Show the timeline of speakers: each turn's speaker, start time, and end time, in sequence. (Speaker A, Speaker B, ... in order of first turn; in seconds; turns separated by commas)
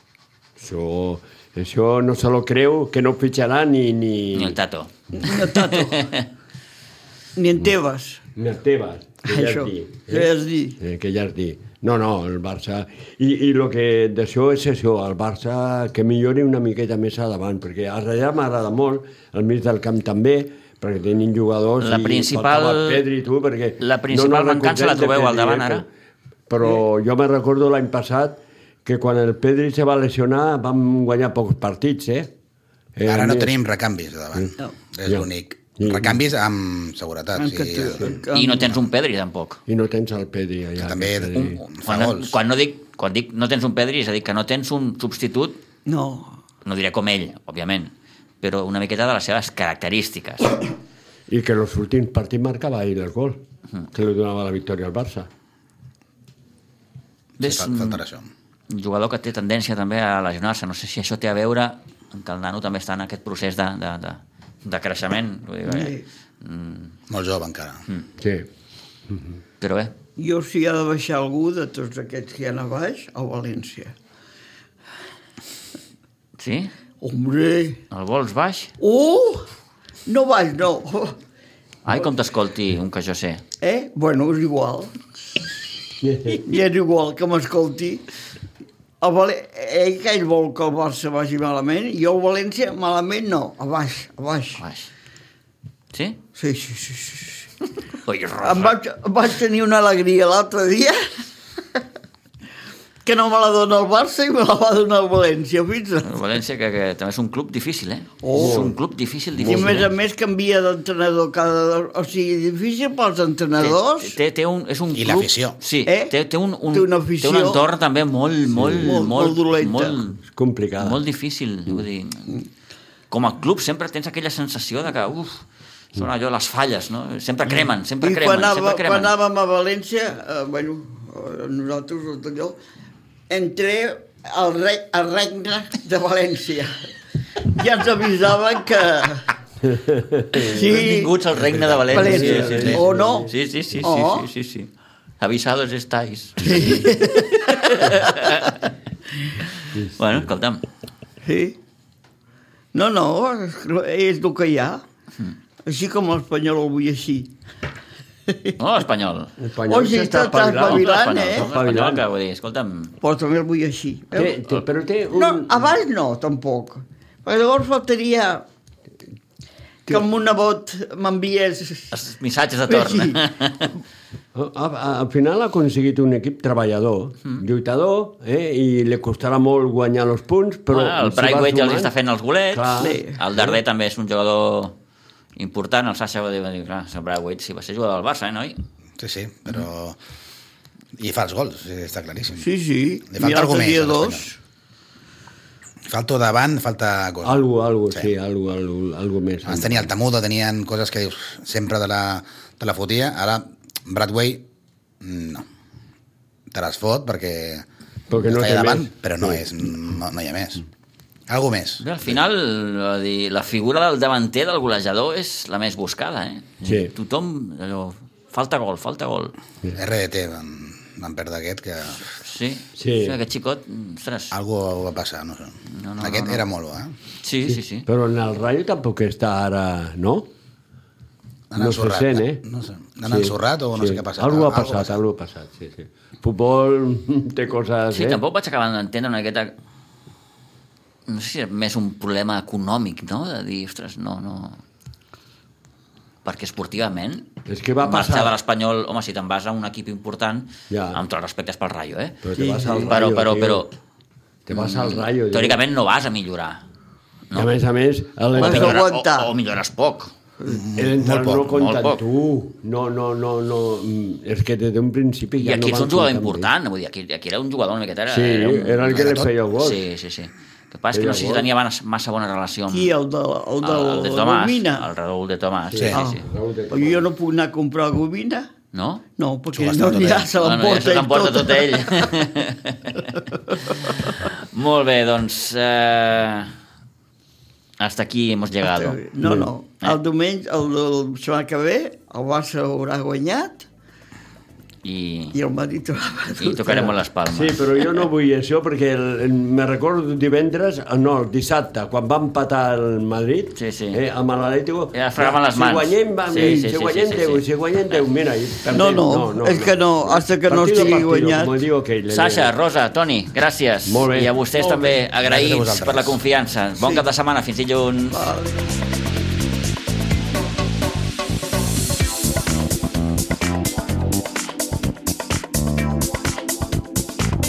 Speaker A: 0.6-4.6, Speaker B: 4.3-6.2, Speaker C: 5.1-6.1, Speaker C: 7.3-8.2, Speaker A: 8.3-25.9, Speaker C: 9.2-10.8, Speaker B: 21.8-23.0, Speaker B: 23.8-25.8, Speaker A: 26.5-32.3, Speaker A: 33.0-33.5, Speaker D: 33.0-38.2, Speaker A: 35.8-36.2, Speaker C: 37.4-38.7, Speaker B: 38.3-39.6, Speaker A: 39.7-41.6, Speaker D: 40.8-42.3, Speaker B: 41.3-45.6, Speaker C: 45.9-46.4, Speaker B: 46.6-50.6, Speaker A: 51.3-53.4, Speaker A: 53.9-55.3, Speaker B: 57.4-58.0, Speaker D: 57.4-58.3, Speaker B: 58.7-66.9, Speaker C: 65.7-66.0, Speaker D: 67.1-67.8, Speaker A: 68.2-68.5, Speaker B: 69.6-69.9, Speaker C: 70.2-73.9, Speaker B: 76.4-76.7, Speaker C: 77.0-77.8, Speaker B: 77.9-78.7, Speaker C: 78.8-79.5, Speaker C: 80.0-81.2, Speaker B: 81.8-83.4, Speaker C: 83.6-85.0, Speaker A: 86.0-86.5, Speaker C: 86.3-88.0, Speaker C: 89.0-94.6, Speaker B: 94.6-94.9, Speaker B: 95.9-96.2, Speaker C: 96.3-97.5, Speaker B: 98.0-98.8, Speaker C: 98.4-101.2, Speaker C: 103.0-106.1, Speaker B: 106.0-109.9, Speaker C: 108.2-108.7, Speaker A: 108.3-108.8, Speaker A: 109.3-109.9, Speaker C: 109.4-114.2, Speaker B: 113.6-120.2, Speaker D: 114.9-115.5, Speaker C: 115.8-116.1, Speaker C: 116.7-117.6, Speaker A: 118.5-119.0, Speaker C: 118.8-120.0, Speaker A: 120.3-121.0, Speaker B: 120.8-122.4, Speaker B: 123.1-125.4, Speaker B: 125.9-129.1, Speaker C: 128.0-132.6, Speaker C: 133.3-136.8, Speaker C: 137.4-139.3, Speaker A: 139.6-140.5, Speaker B: 140.3-144.7, Speaker C: 140.3-141.1, Speaker A: 141.6-143.3, Speaker C: 141.9-144.3, Speaker B: 145.2-148.6, Speaker C: 146.4-148.5, Speaker A: 149.7-150.2, Speaker B: 149.9-150.6, Speaker C: 151.2-151.6, Speaker C: 152.7-154.8, Speaker C: 155.6-157.3, Speaker C: 158.3-158.6, Speaker B: 158.6-159.3, Speaker A: 159.4-162.0, Speaker C: 159.7-161.5, Speaker B: 160.6-162.9, Speaker C: 163.0-164.3, Speaker A: 164.1-165.7, Speaker C: 165.1-168.4, Speaker C: 169.8-171.9, Speaker B: 171.9-173.7, Speaker C: 172.7-173.2, Speaker A: 174.3-181.9, Speaker B: 180.7-184.8, Speaker A: 182.5-183.6, Speaker C: 182.8-183.2, Speaker B: 185.3-188.6, Speaker D: 189.0-190.0, Speaker D: 191.0-192.4, Speaker C: 192.4-194.4, Speaker D: 193.1-194.3, Speaker D: 195.9-197.4, Speaker A: 197.2-199.9, Speaker D: 199.4-204.4, Speaker D: 205.0-205.4, Speaker D: 206.5-210.6, Speaker A: 208.1-209.4, Speaker D: 211.3-212.2, Speaker B: 211.8-219.4, Speaker A: 216.6-216.9, Speaker D: 219.7-222.1, Speaker B: 222.1-224.3, Speaker A: 222.8-223.2, Speaker D: 224.3-226.9, Speaker B: 225.7-226.4, Speaker B: 227.2-227.9, Speaker A: 227.4-230.3, Speaker D: 231.5-234.9, Speaker A: 231.6-232.4, Speaker A: 233.0-238.2, Speaker B: 237.9-239.5, Speaker B: 241.1-244.6, Speaker B: 246.2-247.3, Speaker A: 247.5-248.3, Speaker B: 247.8-252.2, Speaker A: 250.7-251.0, Speaker A: 252.2-253.7, Speaker C: 252.3-253.0, Speaker B: 252.8-253.7, Speaker A: 254.4-255.6, Speaker B: 254.5-256.6, Speaker A: 257.3-258.8, Speaker B: 258.3-260.1, Speaker C: 258.3-259.3, Speaker D: 260.5-261.5, Speaker A: 260.7-266.5, Speaker B: 261.5-262.0, Speaker B: 265.4-272.9, Speaker A: 268.1-269.8, Speaker D: 268.9-269.3, Speaker A: 270.9-271.5, Speaker C: 272.7-274.8, Speaker B: 273.6-276.2, Speaker A: 275.7-277.1, Speaker C: 275.9-278.5, Speaker B: 278.7-279.0, Speaker C: 279.2-282.2, Speaker D: 279.5-280.3, Speaker B: 280.4-283.0, Speaker C: 283.5-284.0, Speaker B: 283.9-286.5, Speaker B: 287.8-289.0, Speaker C: 288.7-293.7, Speaker B: 294.8-295.3, Speaker C: 295.3-296.9, Speaker B: 296.4-298.0, Speaker A: 297.3-312.5, Speaker B: 303.6-304.0, Speaker B: 304.9-308.0, Speaker C: 308.7-311.5, Speaker B: 312.1-318.2, Speaker A: 313.9-314.9, Speaker D: 315.2-316.2, Speaker C: 318.1-318.7